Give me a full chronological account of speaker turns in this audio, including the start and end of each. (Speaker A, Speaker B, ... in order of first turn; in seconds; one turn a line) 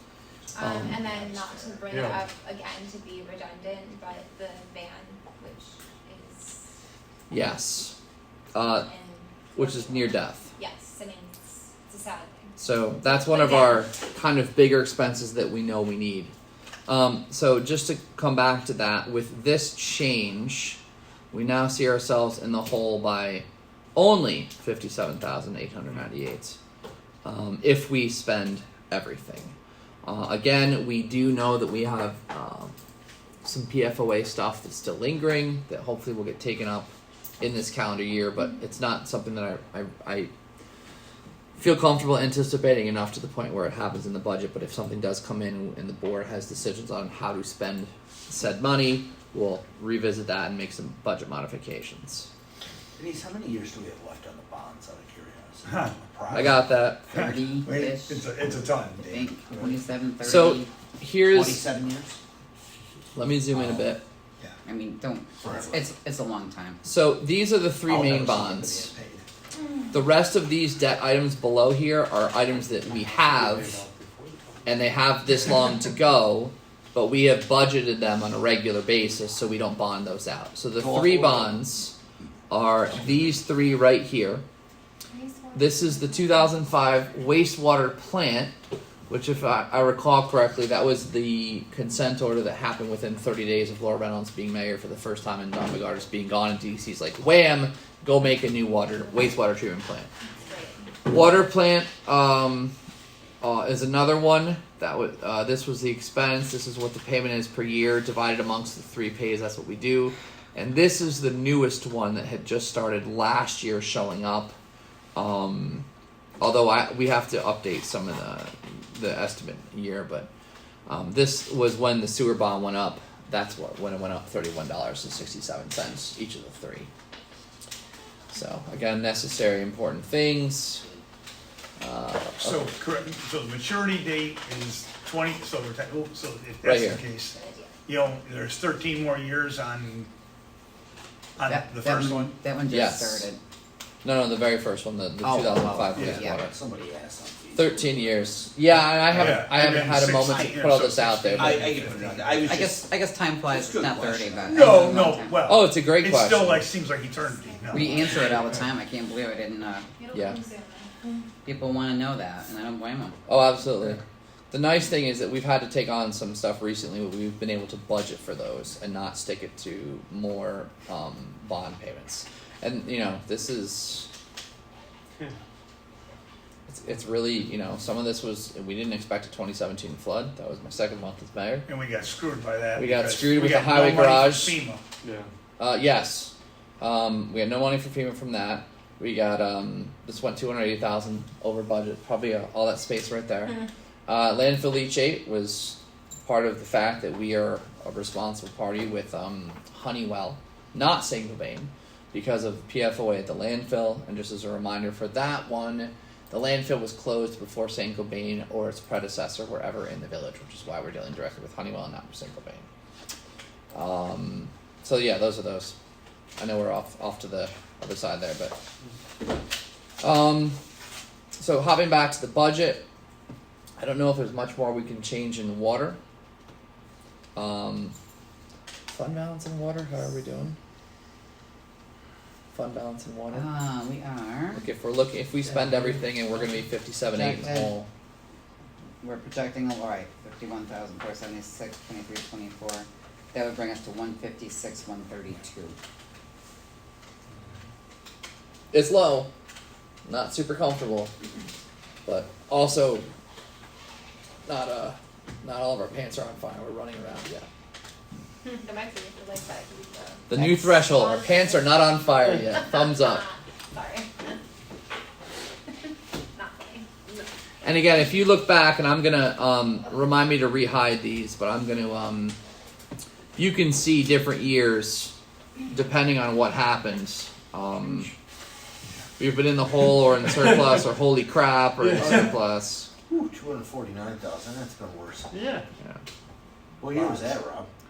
Speaker A: 0.5-6.7
Speaker B: 0.6-1.1
Speaker C: 1.0-1.9
Speaker D: 1.9-2.2
Speaker B: 7.3-8.0
Speaker B: 8.5-8.9
Speaker A: 8.6-13.9
Speaker B: 9.5-10.5
Speaker B: 12.6-16.3
Speaker B: 16.9-20.8
Speaker B: 21.3-26.6
Speaker B: 27.2-32.7
Speaker B: 33.4-40.3
Speaker B: 41.6-52.3
Speaker C: 53.0-56.7
Speaker E: 55.7-55.9
Speaker B: 56.3-57.2
Speaker F: 57.1-58.2
Speaker E: 57.1-59.1
Speaker F: 58.9-60.7
Speaker C: 59.0-59.8
Speaker B: 60.2-61.6
Speaker C: 61.3-62.2
Speaker B: 63.1-64.0
Speaker C: 63.5-63.8
Speaker F: 64.6-66.8
Speaker C: 65.4-65.9
Speaker B: 66.8-68.9
Speaker C: 67.8-69.2
Speaker B: 69.9-73.8
Speaker D: 73.1-75.1
Speaker B: 74.6-81.9
Speaker C: 80.8-81.6
Speaker B: 82.5-84.4
Speaker A: 85.1-86.7
Speaker B: 85.5-88.5
Speaker B: 89.1-100.1
Speaker A: 100.4-100.8
Speaker B: 101.0-102.7
Speaker B: 103.4-114.5
Speaker B: 115.2-115.8
Speaker B: 116.4-120.3
Speaker B: 120.9-126.9
Speaker B: 128.3-130.8
Speaker B: 131.8-132.7
Speaker E: 132.4-140.1
Speaker B: 136.6-137.0
Speaker A: 137.3-137.7
Speaker E: 141.4-142.4
Speaker F: 141.5-143.4
Speaker B: 142.7-143.3
Speaker B: 144.0-146.5
Speaker F: 145.2-146.4
Speaker E: 145.9-146.2
Speaker C: 146.3-148.2
Speaker B: 147.5-151.7
Speaker E: 149.0-152.6
Speaker C: 150.2-150.5
Speaker C: 151.4-154.8
Speaker F: 152.4-155.4
Speaker E: 154.5-158.5
Speaker B: 155.4-156.7
Speaker A: 157.3-157.7
Speaker F: 157.7-159.9
Speaker A: 160.0-161.1
Speaker B: 160.1-160.4
Speaker F: 161.4-163.2
Speaker B: 163.3-174.1
Speaker B: 176.7-181.7
Speaker E: 181.7-184.8
Speaker B: 182.7-184.6
Speaker D: 185.0-185.3
Speaker B: 185.6-212.7
Speaker B: 213.7-215.8
Speaker B: 216.4-218.6
Speaker B: 220.0-220.6
Speaker B: 221.4-222.8
Speaker B: 223.8-226.0
Speaker B: 227.3-227.9
Speaker B: 228.9-230.6
Speaker B: 232.5-233.5
Speaker F: 233.3-234.6
Speaker B: 234.5-237.9
Speaker F: 237.1-237.7
Speaker F: 239.0-245.8
Speaker B: 248.7-249.3
Speaker B: 250.1-251.1
Speaker B: 252.1-253.1
Speaker B: 254.4-257.5
Speaker A: 258.4-264.3
Speaker B: 260.3-263.3
Speaker F: 260.3-260.6
Speaker A: 266.3-267.2
Speaker B: 267.6-272.4
Speaker B: 273.4-275.1
Speaker B: 275.7-278.1
Speaker B: 279.2-282.9
Speaker D: 281.8-282.3
Speaker C: 282.0-282.3
Speaker C: 283.1-285.3
Speaker D: 285.3-285.6
Speaker C: 286.8-287.7